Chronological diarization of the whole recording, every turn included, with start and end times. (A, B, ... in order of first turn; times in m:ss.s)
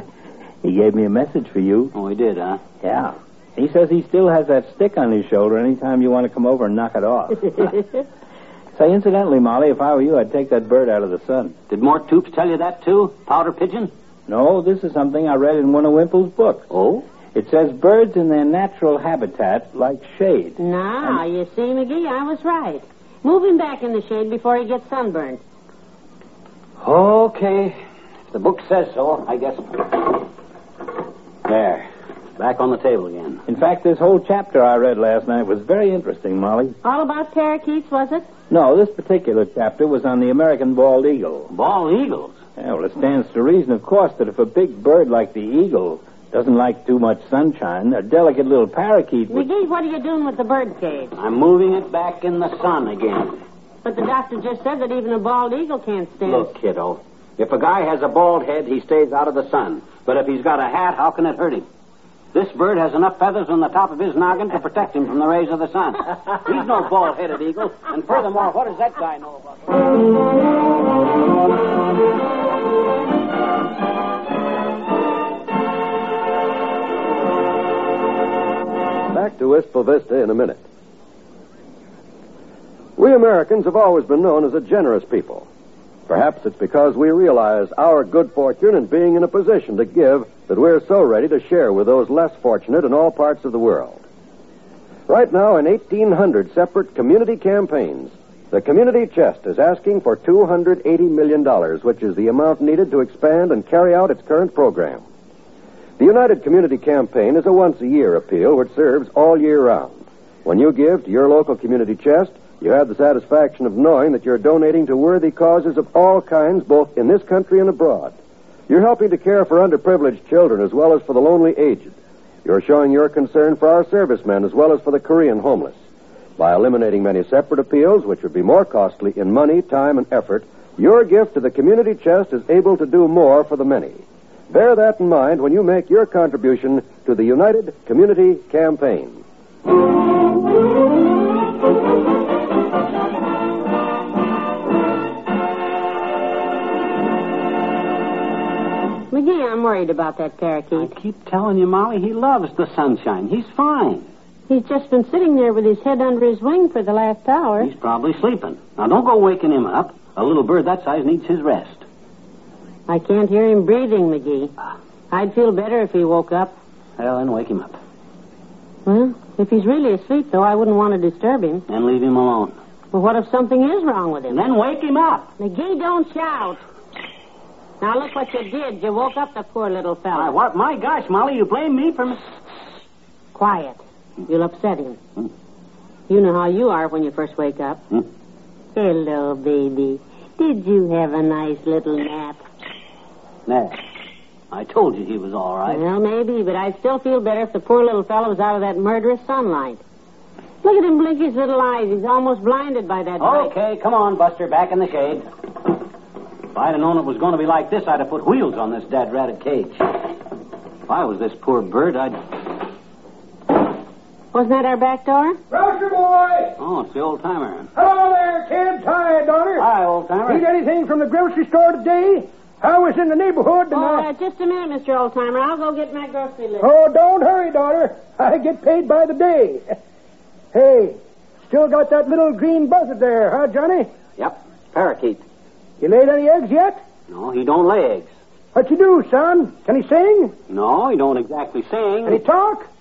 0:00.6-0:01.9 A
0:01.9-0:02.6 B
0:02.8-0:07.7 A
0:07.6-0:08.0 C
0:08.8-0:11.6 A
0:11.7-0:13.9 B
0:14.3-0:16.7 A
0:16.7-0:17.0 B
0:17.3-0:21.2 A
0:20.6-0:25.4 C
0:26.8-0:27.8 B
0:28.3-0:30.2 B
0:31.5-0:33.4 B
0:33.5-0:36.8 A
0:36.8-0:38.3 C
0:38.5-0:41.5 A
0:41.5-0:42.4 B
0:42.6-0:49.5 A
0:49.3-0:51.2 C
0:51.2-0:53.4 B
0:53.8-0:56.5 C
0:56.2-1:01.7 B
1:02.3-1:09.6 B
1:19.1-1:20.6 D
1:23.0-1:25.5 D
1:26.1-1:34.0 D
1:35.1-1:45.0 D
1:46.0-1:58.2 D
1:58.7-2:05.8 D
2:06.4-2:19.2 D
2:29.1-2:30.9 C
2:30.7-2:34.1 B
2:34.5-2:37.7 C
2:37.6-2:41.8 B
2:42.9-2:44.5 C
2:45.1-2:46.6 C
2:47.0-2:47.8 B
2:48.9-2:51.6 C
2:51.7-2:52.6 B
2:52.9-2:54.4 C
2:54.3-2:55.3 B
2:55.4-2:56.6 C
2:57.8-3:00.4 C
3:00.1-3:02.2 B
3:03.3-3:05.0 C
3:06.1-3:07.8 C
3:08.7-3:12.4 C
3:13.5-3:13.8 B
3:14.5-3:15.8 B
3:15.7-3:19.8 C
3:20.6-3:23.5 C
3:23.2-3:25.2 B
3:26.5-3:30.0 B
3:30.9-3:32.2 B
3:34.3-3:35.4 C
3:35.5-3:36.6 E
3:36.6-3:37.7 B
3:37.8-3:39.7 E
3:39.6-3:40.4 B
3:40.3-3:44.1 E
3:43.7-3:46.7 C
3:46.6-3:49.8 E
3:50.5-3:53.9 E
3:54.2-3:55.2 B
3:55.8-3:56.8 E
3:57.1-3:58.1 B
3:58.6-4:00.3 E
4:00.5-4:02.2 B
4:02.0-4:02.7 E